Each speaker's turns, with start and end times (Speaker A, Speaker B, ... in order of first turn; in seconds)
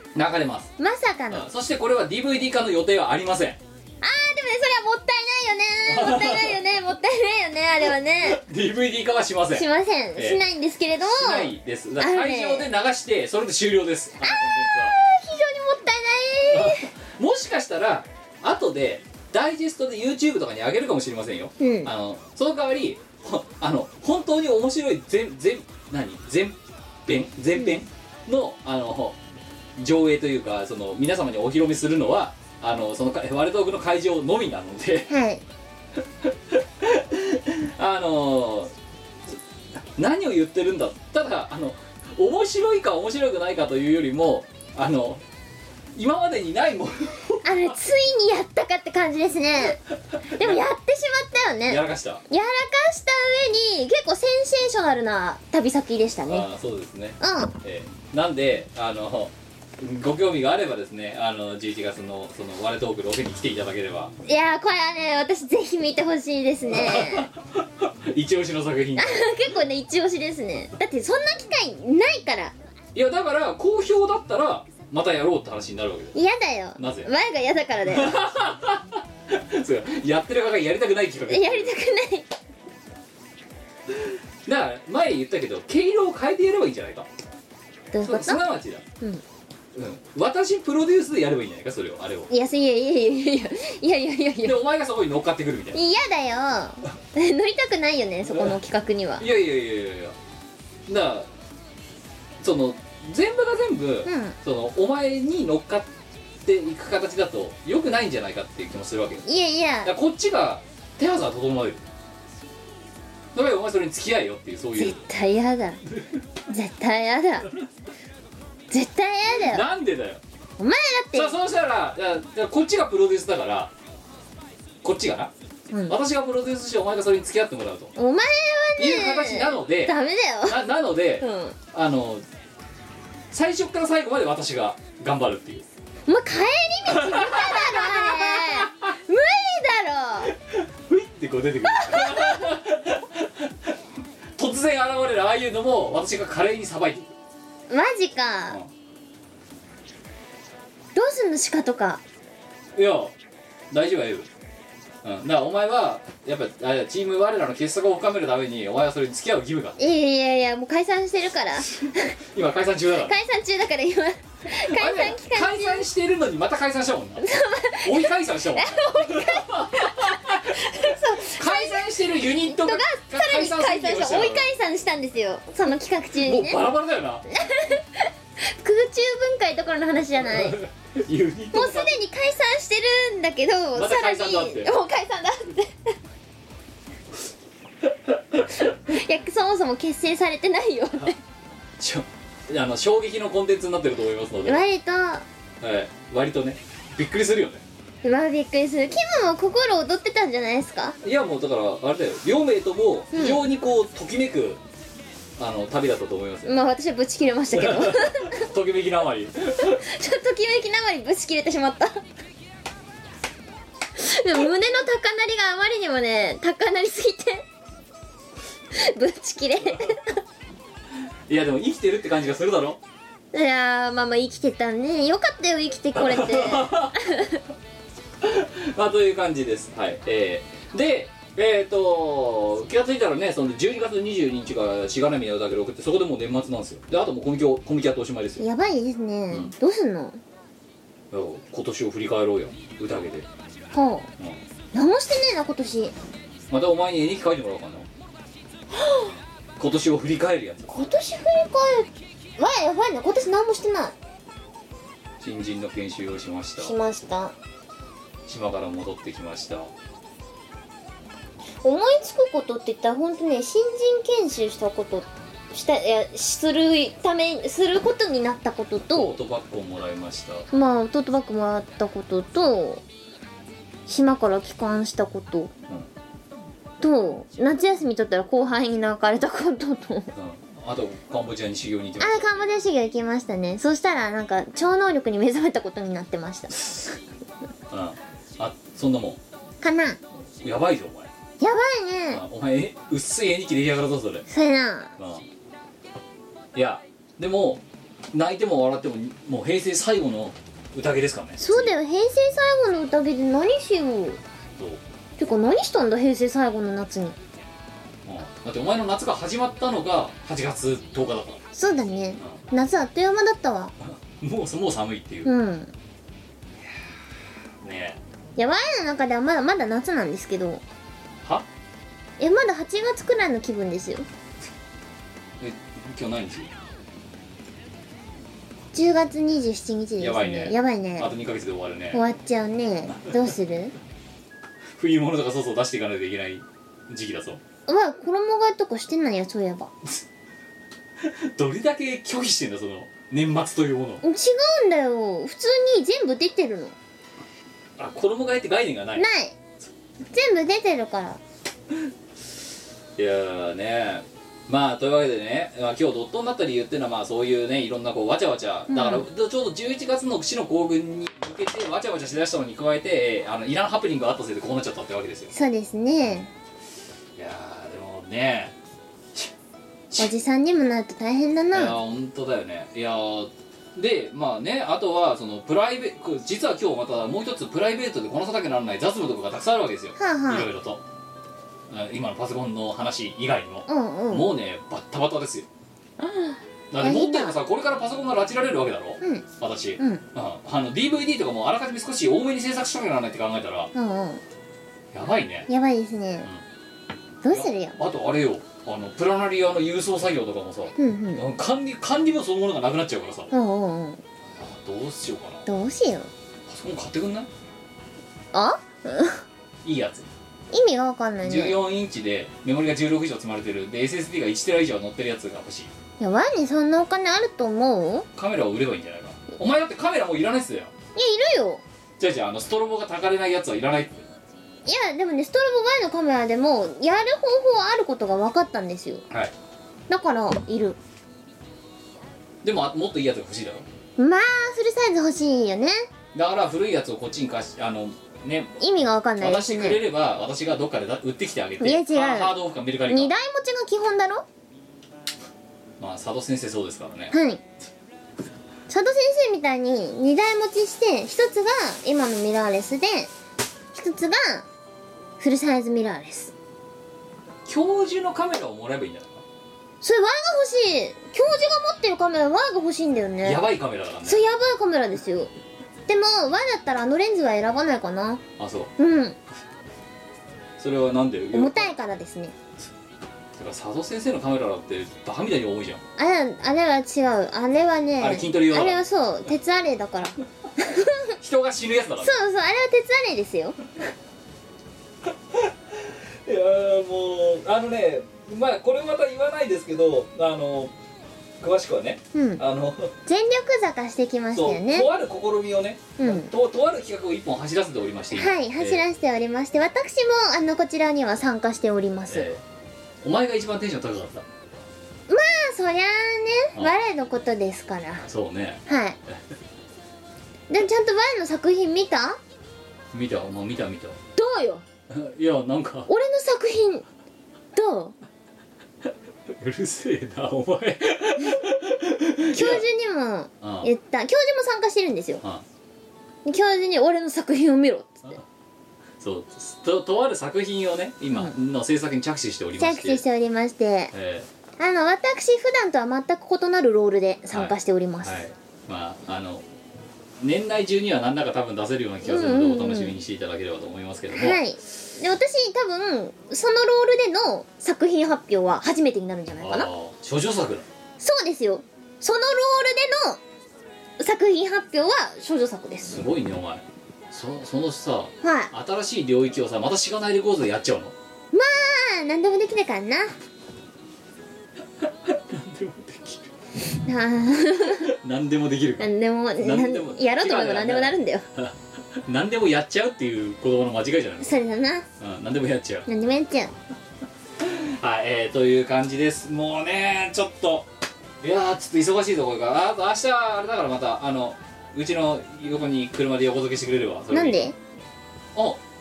Speaker A: 0.1-0.7, 1.3-3.6, 5.9-6.6, 8.2-10.4, 11.0-14.9, 16.5-29.2, 29.8-35.1, 36.2-38.7, 39.3-45.2, 46.0-47.7, 50.1-50.6, 51.7-52.2, 56.2-64.1, 66.7-69.4, 72.9-76.2, 76.8-77.1, 77.8-81.7, 83.9-87.1, 88.0-88.8, 89.7-92.3, 94.4-95.8, 98.3-98.5, 99.2-100.2, 100.9-101.3, 102.4-105.9, 106.4-109.3, 109.8-111.8, 113.3-115.0, 119.3-120.2, 121.1-123.7, 124.8-125.3, 125.9-127.9, 128.8-132.2, 133.3-135.7, 136.9-138.9, 140.2-143.8, 144.4-147.1, 152.7-153.1, 153.7-154.3, 155.0-159.8, 161.8-163.1, 164.5-167.3, 167.8-174.5, 176.2-177.2, 180.2-181.9, 183.7-184.7, 188.1-188.6, 191.8-194.6, 195.6-197.6, 201.0-204.6, 205.4-206.6, 207.5-209.8, 221.3-222.8, 225.9-227.0, 228.2-238.4, 241.1-243.3, 246.5-247.9, 249.6-250.8, 255.2-256.8, 258.3-259.7, 268.8-270.5, 280.1-282.5, 287.7-289.2, 290.1-291.1, 292.1-294.2, 295.0-295.3, 296.5-301.7, 308.1-311.4, 313.8-315.3, 317.6-318.0, 325.4-326.5, 330.0-332.0, 334.7-337.4, 341.0-344.0, 347.8-349.1, 353.0-365.3, 367.2-368.6, 371.5-380.8, 381.7-385.5, 386.7-393.7, 394.9-395.5, 397.3-403.3, 404.3-405.4, 406.5-407.3, 409.6-410.1, 411.2-415.7, 418.1-420.7, 422.0-424.1, 432.4-433.7, 436.1-438.6, 439.2-443.1, 445.8-447.2, 457.4-459.2, 463.2-464.2, 468.4-468.7, 470.6-471.8, 473.3-475.8, 478.0-478.8, 481.2-482.2, 485.3-490.7, 491.4-492.9, 494.3-498.8, 502.1-502.4, 503.0-504.3, 508.1-509.2, 512.9-514.0, 514.9-515.9, 519.3-522.7, 523.4-523.7, 529.0-533.0, 533.9-534.3, 537.3-539.5, 540.2-544.4, 549.4-550.7, 555.9-561.0, 564.8-566.3, 567.8-574.4, 575.0-575.9, 577.4-580.7, 581.2-587.4, 588.3-588.6
Speaker B: 0.8-1.5, 4.0-8.4, 9.5-12.7, 14.2-16.9, 21.6-21.9, 35.1-35.4, 47.4-49.8, 50.3-56.5, 57.2-57.5, 64.2-67.3, 69.0-72.5, 76.1-78.2, 81.3-82.3, 87.9-88.5, 92.3-94.6, 95.7-99.2, 104.0-104.4, 109.2-109.9, 114.8-115.8, 116.5-117.5, 118.7-119.6, 120.6-121.4, 125.7-126.0, 128.0-130.6, 131.2-131.6, 136.1-140.3, 141.6-142.5, 147.7-148.6, 150.9-152.0, 159.8-162.1, 163.0-165.9, 167.2-176.6, 177.3-180.6, 181.5-185.9, 188.7-191.2, 194.4-195.2, 198.0-201.0, 203.1-203.4, 206.4-208.4, 209.6-212.0, 213.9-217.4, 218.7-220.2, 223.3-227.4, 238.4-240.2, 243.7-244.1, 244.7-245.9, 248.7-249.1, 250.7-253.9, 256.6-257.3, 261.6-269.2, 270.5-272.8, 273.9-275.5, 276.8-280.1, 282.0-287.0, 289.6-290.0, 291.4-292.2, 294.3-294.9, 301.4-304.2, 305.2-307.2, 311.6-313.7, 315.2-315.7, 318.4-320.6, 322.2-324.1, 328.7-331.1, 331.9-333.7, 337.7-339.7, 344.0-346.7, 348.9-349.4, 350.1-351.2, 358.7-359.1, 365.3-366.3, 370.0-371.8, 380.0-380.5, 383.7-384.3, 386.0-387.3, 389.8-390.0, 393.7-394.2, 395.5-396.3, 397.2-397.8, 400.8-401.3, 403.3-404.0, 405.4-406.1, 408.3-409.2, 410.5-411.6, 416.0-418.1, 420.9-421.6, 424.6-429.0, 429.9-430.8, 434.0-435.9, 438.6-439.8, 441.6-442.4, 442.9-444.2, 447.1-447.4, 448.7-453.1, 453.7-454.4, 455.2-456.3, 459.8-463.4, 464.1-465.3, 465.9-468.2, 468.8-469.2, 471.3-472.3, 476.0-481.1, 482.0-483.6, 492.1-492.4, 493.1-494.9, 496.0-496.3, 498.1-502.3, 505.1-508.1, 508.7-509.0, 510.5-512.2, 514.2-514.6, 515.9-516.8, 517.5-518.0, 522.3-525.2, 526.2-528.2, 532.6-533.9, 534.6-538.2, 542.0-543.0, 544.1-549.7, 551.0-553.2, 554.0-556.0, 558.2-558.5, 561.3-563.1, 566.8-567.9, 568.8-571.2, 574.2-574.9, 575.9-576.5, 587.1-587.5